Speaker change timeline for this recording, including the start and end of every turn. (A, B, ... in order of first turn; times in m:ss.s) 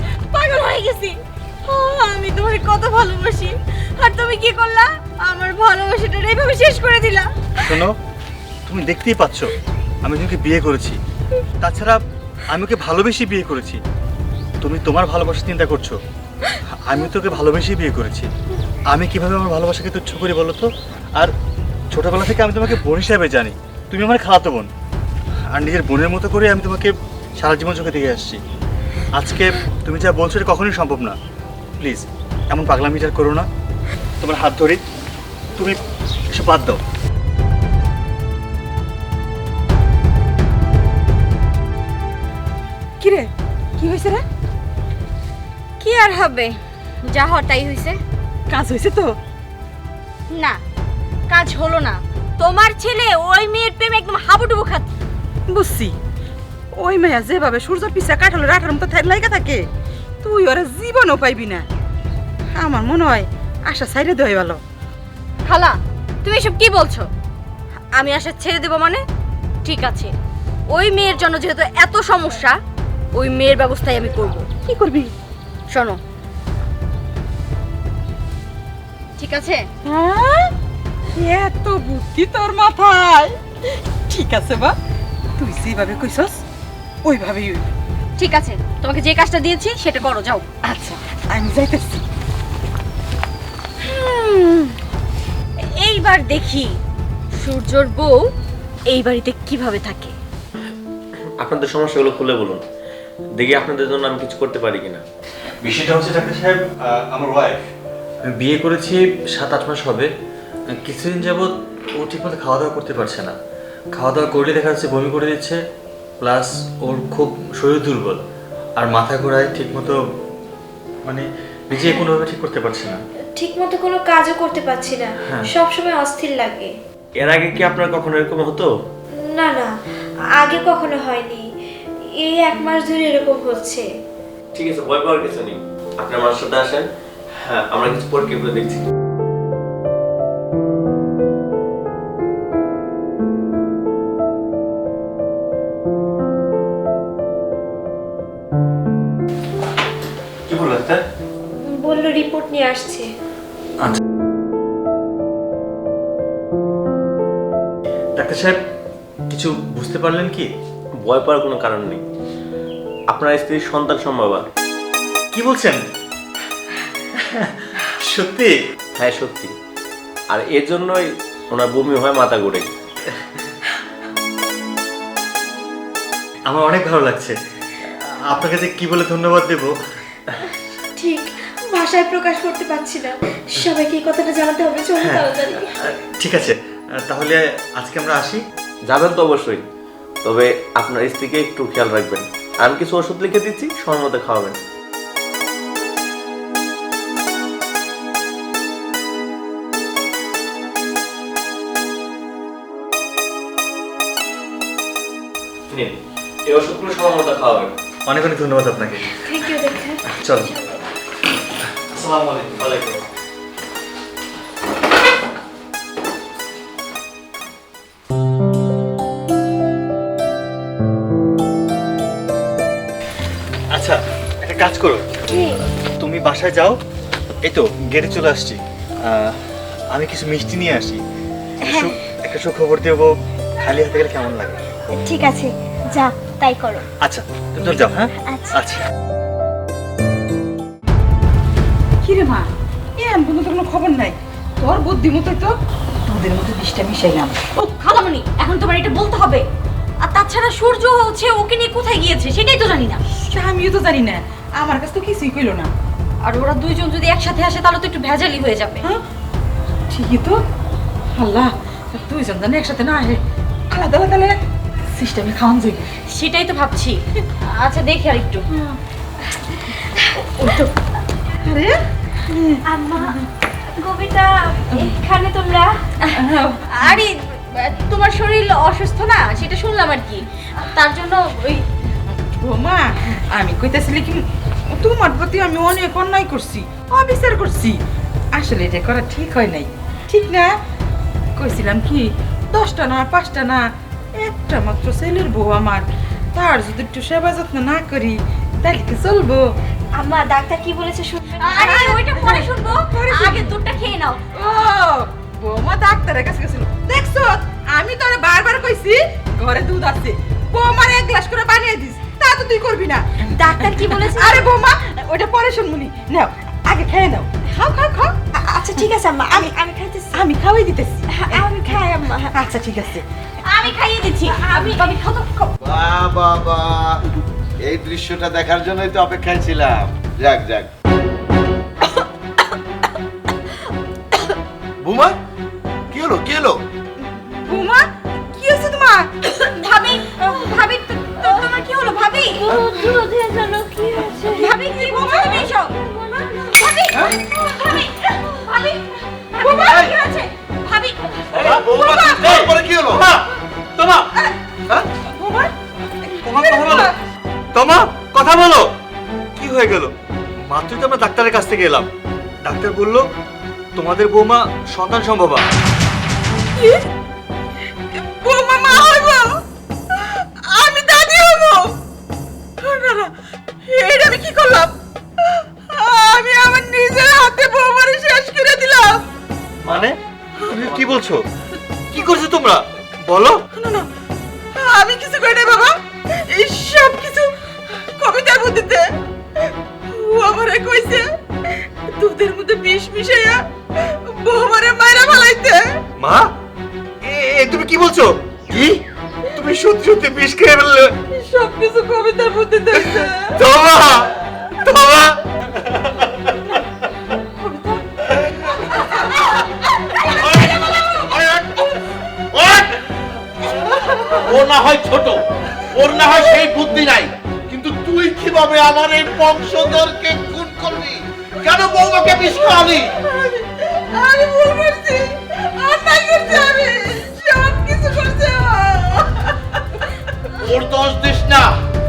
0:00.3-0:07.5 A
0:07.6-0:08.0 B
0:08.6-0:11.0 B
0:11.6-0:13.8 B
0:14.6-0:16.0 B
0:16.7-0:18.3 B
0:18.9-0:21.3 B
0:21.9-0:24.7 B
0:25.5-0:28.4 B
0:29.1-0:31.2 B
0:31.8-0:33.5 B
0:34.2-0:34.8 B
0:36.3-0:36.8 B
0:43.0-0:44.2 C
0:45.8-0:48.0 A
0:48.5-0:49.2 C
0:50.3-0:50.6 A
0:51.3-0:54.9 A
0:55.5-0:55.9 C
0:56.8-0:59.6 C
1:00.2-1:01.6 C
1:02.6-1:04.6 C
1:05.4-1:07.1 A
1:07.9-1:09.0 A
1:09.6-1:10.1 A
1:10.7-1:12.6 A
1:13.1-1:14.6 A
1:14.6-1:15.1 C
1:15.7-1:16.0 A
1:19.2-1:19.7 A
1:19.8-1:20.5 C
1:21.1-1:23.4 C
1:24.1-1:24.7 C
1:25.4-1:26.4 C
1:27.0-1:27.7 C
1:28.2-1:30.4 A
1:30.6-1:32.0 C
1:33.8-1:34.8 A
1:35.6-1:36.8 A
1:37.3-1:38.3 A
1:38.9-1:40.1 A
1:41.4-1:42.6 D
1:43.4-1:45.0 D
1:45.6-1:47.6 B
1:48.2-1:50.1 B
1:50.7-1:53.3 B
1:53.9-1:55.6 B
1:56.2-1:58.2 B
1:58.8-2:00.0 B
2:01.0-2:03.0 B
2:03.4-2:06.7 E
2:05.3-2:05.5 B
2:07.2-2:08.7 D
2:09.2-2:09.7 E
2:10.4-2:11.4 E
2:12.2-2:13.9 E
2:14.5-2:16.8 D
2:17.4-2:18.9 D
2:30.5-2:31.0 B
2:31.6-2:33.1 E
2:38.2-2:38.6 B
2:39.3-2:40.5 B
2:41.0-2:42.0 D
2:43.1-2:44.4 D
2:45.3-2:45.8 B
2:47.3-2:48.6 B
2:49.0-2:49.5 D
2:50.3-2:52.7 D
2:56.5-2:57.4 B
2:57.9-2:59.7 B
3:01.0-3:05.7 E
3:05.0-3:08.4 B
3:08.9-3:09.6 D
3:10.2-3:14.6 D
3:25.7-3:27.7 D
3:28.0-3:29.2 B
3:29.2-3:30.8 E
3:30.1-3:30.5 B
3:31.8-3:33.0 B
3:43.7-3:45.1 B
3:45.3-3:45.6 E
3:46.0-3:46.8 B
3:47.4-3:49.4 B
3:49.9-3:51.0 B
3:51.6-3:54.6 B
3:54.9-3:56.8 E
3:57.0-3:58.8 B
4:02.0-4:05.5 C
4:06.0-4:07.4 C
4:07.5-4:09.4 A
4:10.0-4:13.0 A
4:13.1-4:15.7 C
4:16.2-4:18.9 A
4:19.9-4:20.4 C
4:21.1-4:23.2 C
4:23.7-4:24.4 C
4:24.9-4:25.9 C
4:26.1-4:28.5 A
4:31.4-4:31.7 C
4:32.4-4:33.2 C
4:32.7-4:33.2 E
4:33.7-4:35.8 E
4:36.2-4:37.0 C
4:36.7-4:41.6 A
4:42.1-4:47.8 C
4:48.4-4:50.5 C
4:51.4-4:59.4 C
5:00.0-5:02.1 E
5:01.3-5:04.2 A
5:01.6-5:03.6 C
5:04.3-5:19.5 C
5:13.3-5:14.4 E
5:18.5-5:20.2 E
5:20.1-5:23.0 C
5:21.2-5:22.3 E
5:23.4-5:25.5 A
5:24.5-5:24.9 C
5:25.6-5:27.0 F
5:27.6-5:30.7 F
5:34.8-5:35.1 F
5:35.9-5:36.6 F
5:37.0-5:39.1 C
5:39.4-5:42.6 A
5:40.2-5:41.5 C
5:42.5-5:44.6 E
5:44.4-5:45.5 C
5:44.4-5:51.4 A
5:49.4-5:50.0 C
5:51.4-5:53.1 F
5:51.4-5:54.1 B
5:51.4-5:52.3 C
5:55.0-5:57.0 C
5:56.2-5:56.9 B
5:57.5-5:58.7 B
5:59.3-6:01.9 B
6:02.4-6:03.1 B
6:03.8-6:05.5 B
6:06.6-6:06.8 C
6:07.9-6:09.3 C
6:09.9-6:11.7 C
6:12.6-6:13.1 C
6:13.7-6:19.0 C
6:19.6-6:21.2 B
6:20.4-6:20.6 C
6:21.9-6:23.4 B
6:23.5-6:23.9 C
6:24.6-6:28.9 C
6:29.4-6:31.1 C
6:31.9-6:35.8 C
6:36.0-6:36.3 B
6:37.0-6:38.2 B
6:38.5-6:38.8 F
6:39.3-6:40.9 B
6:41.1-6:43.4 C
6:43.4-6:44.1 F
6:44.6-6:45.2 B
6:47.4-6:47.8 A
6:50.1-6:51.7 F
6:52.3-6:52.8 F
6:54.1-7:02.9 F
7:03.0-7:09.4 C
7:10.3-7:11.5 F